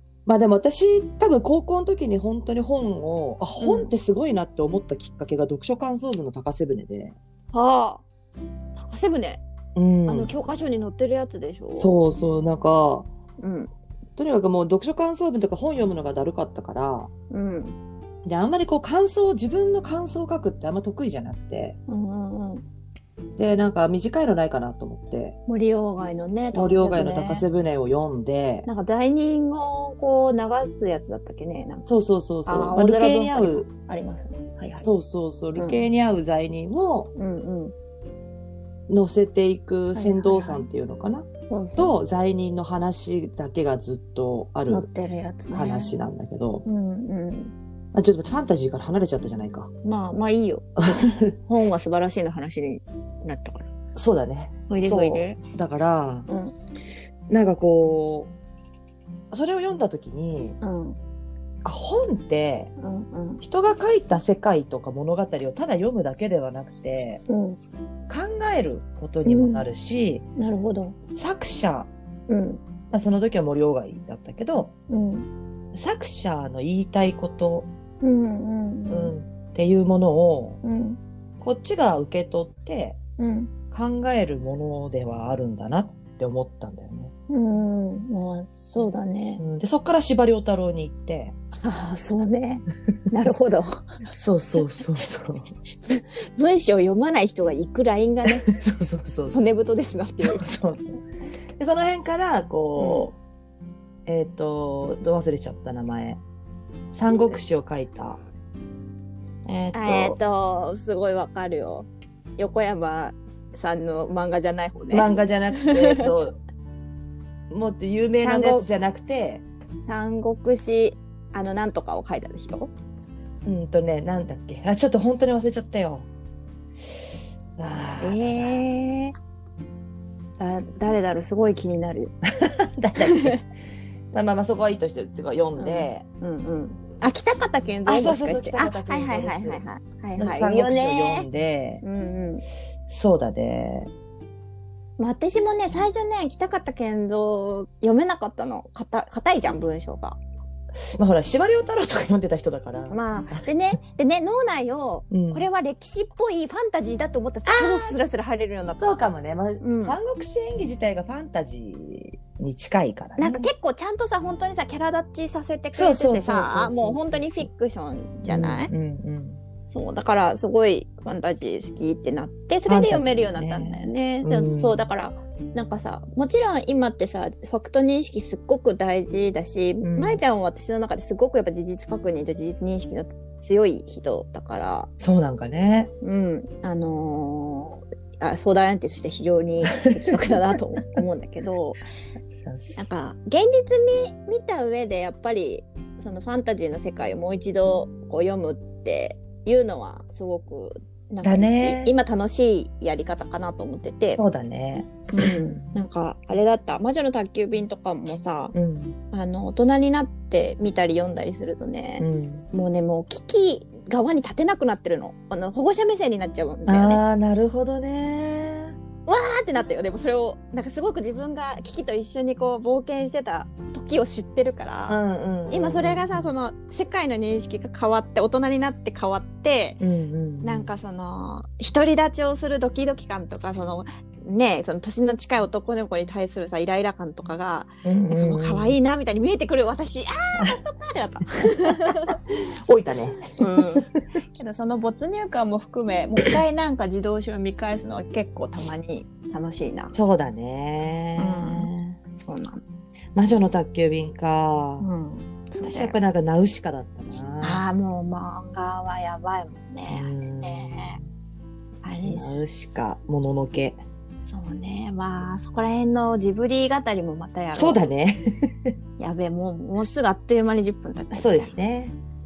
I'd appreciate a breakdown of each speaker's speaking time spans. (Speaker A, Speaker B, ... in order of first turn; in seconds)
Speaker A: 0.3-7.2, 9.8-10.3, 11.8-13.1, 14.2-17.1, 18.2-21.8, 23.4-25.4, 26.5-28.7, 31.9-33.7, 34.8-37.1, 38.9-44.9, 45.5-46.6, 47.9-49.7, 50.8-51.3, 54.0-56.3, 57.3-58.3, 59.3-60.6, 61.6-62.7, 63.4-67.2, 68.1-70.2, 71.2-71.9, 72.9-74.7, 75.7-77.7, 78.9-80.6, 81.4-83.0, 83.7-87.1, 89.4-91.3, 94.1-95.5, 98.4-99.5, 100.2-101.0, 101.6-103.2, 104.1-106.2, 106.9-108.2, 109.5-110.2, 114.9-116.4, 117.5-119.4, 123.5-126.1, 127.6-128.6, 132.4-133.4, 134.1-136.1, 137.9-139.6, 140.2-141.8, 142.9-143.9, 150.9-153.5, 155.1-155.5, 157.5-158.0, 158.8-163.5, 165.7-167.5, 168.2-169.4, 172.7-174.9, 179.8-180.2, 185.0-185.9, 192.4-192.9, 201.2-201.9, 204.2-205.6, 208.5-209.0, 212.0-212.4, 216.7-218.8, 224.9-226.3, 229.8-230.7, 237.8-238.8, 242.6-244.0, 249.9-252.0, 253.2-254.8, 255.6-257.6, 259.9-261.1, 262.0-263.8, 267.6-268.7, 271.1-272.0
Speaker B: 3.6-3.9, 7.5-8.0, 8.8-9.4, 10.1-12.0, 13.4-13.7, 17.3-17.8, 21.9-22.6, 25.5-27.4, 28.7-31.9, 32.5-34.9, 35.6-35.8, 37.2-37.7, 40.0-40.7, 41.5-41.9, 44.7-46.0, 46.6-47.5, 49.8-50.7, 51.4-53.7, 54.7-55.4, 56.3-56.5, 60.6-61.0, 62.8-63.4, 67.3-67.6, 69.2-69.7, 70.4-71.0, 72.3-72.6, 74.9-75.3, 78.0-79.1, 80.6-81.0, 83.2-83.5, 87.3-89.4, 91.6-93.9, 95.8-98.5, 99.3-100.4, 102.8-103.1, 109.7-116.1, 118.2-118.7, 119.9-122.7, 128.0-129.1, 130.4-132.1, 133.0-133.4, 135.6-141.3, 141.8-142.4, 145.0-150.2, 152.9-158.8, 159.6-160.0, 163.2-168.7, 169.7-184.9, 186.0-191.8, 192.8-204.2, 205.1-208.6, 209.1-217.0, 219.1-229.8, 230.4-242.2, 243.4-249.9, 251.2-252.6, 254.8-256.0, 257.4-261.0, 261.8-262.4, 264.2-267.8, 269.0-271.5